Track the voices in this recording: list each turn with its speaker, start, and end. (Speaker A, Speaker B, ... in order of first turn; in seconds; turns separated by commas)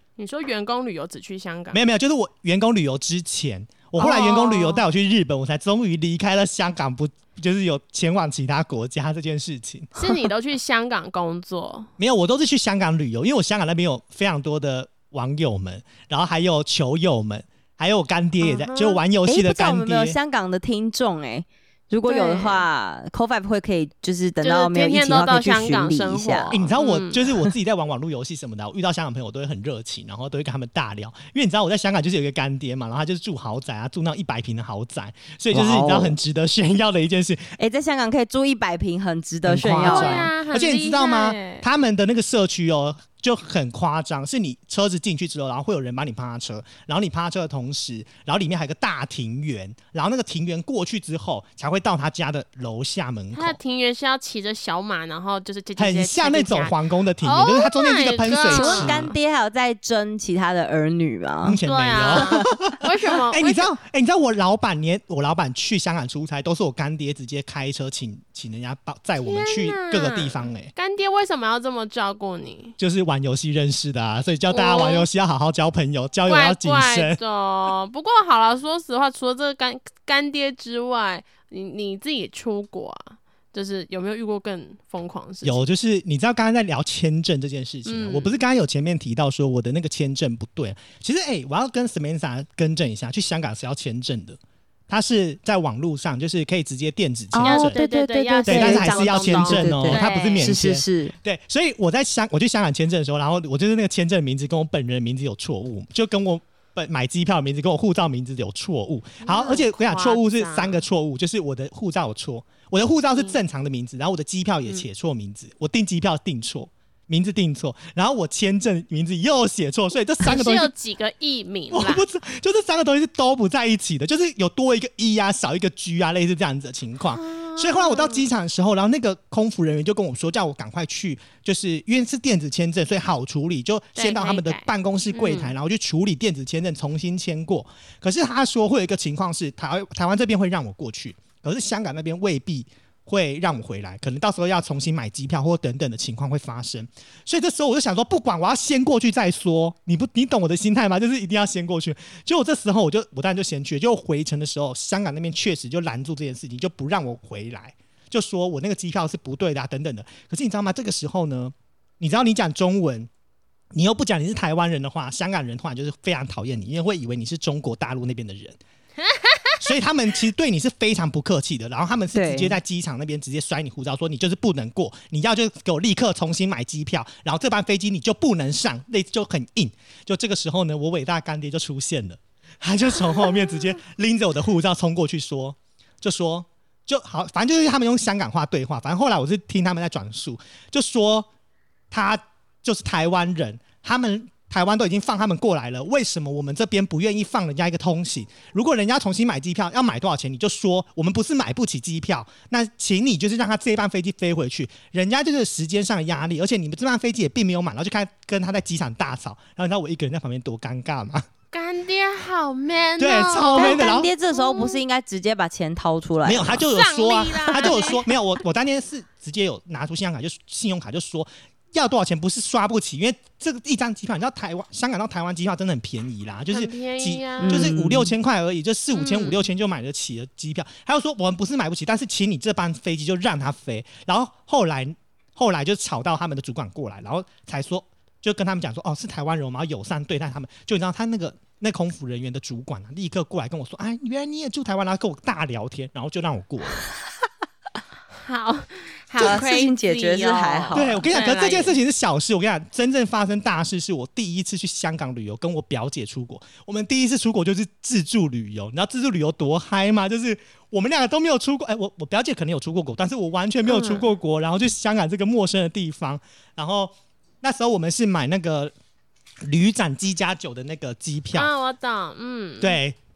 Speaker A: 0.2-1.8, Speaker B: 1.7-10.0, Speaker A: 4.0-4.8, Speaker A: 9.9-11.9, Speaker B: 12.0-20.2, Speaker A: 18.4-19.0, Speaker C: 19.2-26.5, Speaker A: 22.1-22.6, Speaker A: 24.4-27.2, Speaker B: 26.5-37.5, Speaker C: 35.5-36.2, Speaker C: 37.6-40.3, Speaker B: 39.5-53.6, Speaker A: 39.8-41.6, Speaker A: 53.3-59.1, Speaker B: 55.8-59.1, Speaker C: 58.5-61.6, Speaker B: 61.4-70.7, Speaker A: 61.6-63.7, Speaker C: 62.1-62.4, Speaker A: 69.2-72.8, Speaker B: 72.8-77.2, Speaker A: 74.5-75.1, Speaker A: 76.3-85.6, Speaker B: 85.4-97.8, Speaker A: 87.8-88.3, Speaker C: 97.3-101.1, Speaker A: 97.4-100.5, Speaker B: 98.5-120.7, Speaker A: 109.2-110.8, Speaker A: 120.2-122.0, Speaker B: 121.7-163.1, Speaker A: 127.2-128.3, Speaker A: 134.0-135.5, Speaker B: 163.7-168.6, Speaker A: 169.0-169.6, Speaker B: 169.6-191.3, Speaker C: 172.1-172.6, Speaker B: 191.9-211.3, Speaker A: 211.5-214.8, Speaker B: 213.0-214.1, Speaker C: 213.5-216.7, Speaker B: 216.2-246.8, Speaker A: 216.7-218.1, Speaker A: 226.5-227.7, Speaker C: 227.4-228.1, Speaker A: 228.9-229.4, Speaker A: 248.2-251.8, Speaker B: 249.2-249.4, Speaker C: 249.2-251.1, Speaker B: 250.7-268.7, Speaker A: 263.6-264.1, Speaker B: 269.4-271.5, Speaker A: 271.3-272.8, Speaker B: 272.6-273.0